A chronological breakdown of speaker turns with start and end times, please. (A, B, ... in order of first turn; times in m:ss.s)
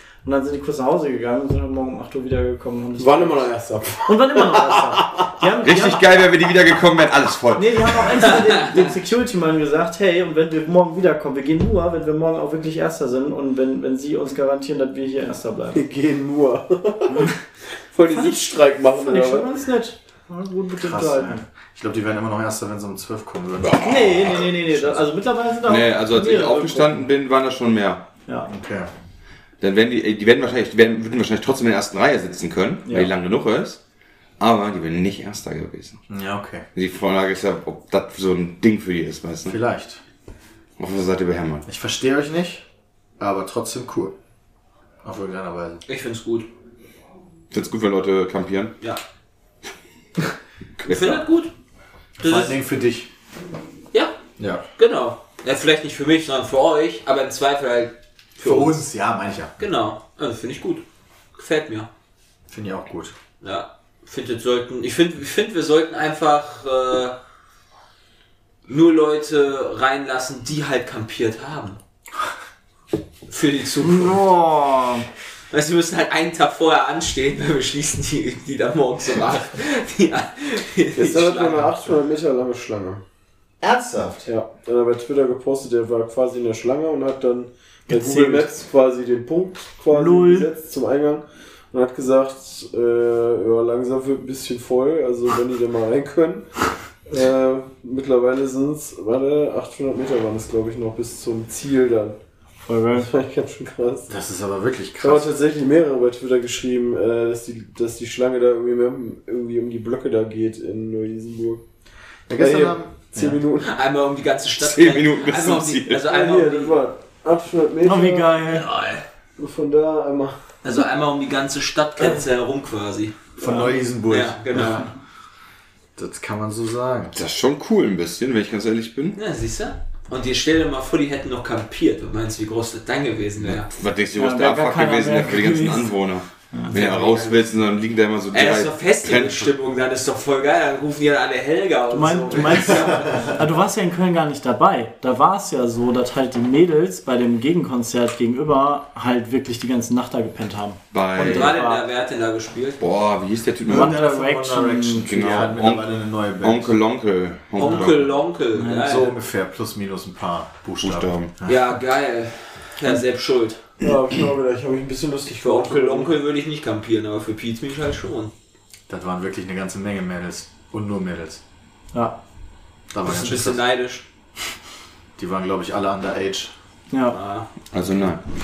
0:00.2-0:03.5 A
0:03.0-0:05.0 B
0:04.0-0:06.2 A
0:05.6-0:08.0 C
0:07.5-0:15.8 A
0:15.7-0:17.3 B
0:17.9-0:19.5 B
0:18.1-0:21.4 A
0:20.8-0:25.0 D
0:23.6-0:23.9 C
0:23.8-0:27.0 A
0:25.6-0:28.1 C
0:28.5-0:28.9 D
0:29.6-0:33.8 C
0:32.8-0:33.1 A
0:34.4-0:36.0 C
0:36.1-0:36.6 D
0:36.7-0:39.6 C
0:39.4-0:40.0 D
0:40.8-0:41.6 C
0:41.6-0:42.6 D
0:43.2-0:44.1 D
0:45.0-0:45.8 D
0:45.9-0:46.5 E
0:47.5-0:48.8 C
0:50.8-0:51.2 C
0:50.8-0:51.5 E
0:52.2-0:52.6 E
0:52.2-0:53.1 D
0:54.4-0:54.6 D
0:54.8-0:58.8 E
0:58.4-0:59.5 D
0:59.6-1:00.8 E
1:01.4-1:01.9 E
1:02.5-1:03.1 D
1:03.4-1:07.2 E
1:08.7-1:11.8 E
1:13.3-1:14.2 E
1:13.8-1:15.1 A
1:15.5-1:21.8 E
1:21.0-1:23.0 B
1:23.6-1:24.3 D
1:24.2-1:36.4 B
1:27.9-1:28.5 A
1:29.9-1:30.5 A
1:37.1-1:42.2 B
1:42.6-1:43.1 A
1:42.9-1:44.1 B
1:44.1-1:45.3 D
1:45.0-1:51.6 B
1:52.3-1:53.4 D
1:52.4-1:53.7 B
1:53.6-1:56.8 E
1:54.6-1:56.0 C
1:56.0-1:58.3 B
1:57.8-1:58.7 A
1:58.5-1:59.0 E
1:59.4-2:00.4 B
2:00.6-2:03.2 E
2:03.4-2:04.8 D
2:03.4-2:03.8 A
2:04.1-2:04.9 E
2:06.0-2:07.2 D
2:07.1-2:09.2 C
2:09.2-2:13.7 E
2:13.6-2:19.5 C
2:14.1-2:15.9 A
2:16.5-2:16.8 A
2:16.7-2:17.4 D
2:18.3-2:23.4 E
2:21.9-2:31.8 A
2:30.9-2:31.5 C
2:31.2-2:32.8 E
2:32.8-2:34.0 C
2:33.6-2:36.8 D
2:33.7-2:35.2 A
2:35.0-2:35.8 C
2:36.4-2:38.2 C
2:37.6-2:39.1 E
2:38.5-2:39.0 A
2:38.8-2:41.6 D
2:40.8-2:41.3 C
2:41.4-2:43.6 E
2:43.8-2:46.2 B
2:45.4-2:48.3 E
2:48.9-2:51.4 D
2:51.9-2:52.2 A
2:52.9-2:53.6 D
2:53.0-2:54.0 E
2:55.2-2:56.5 D
2:56.9-2:57.2 A
2:57.1-2:57.5 E
2:57.7-2:58.2 C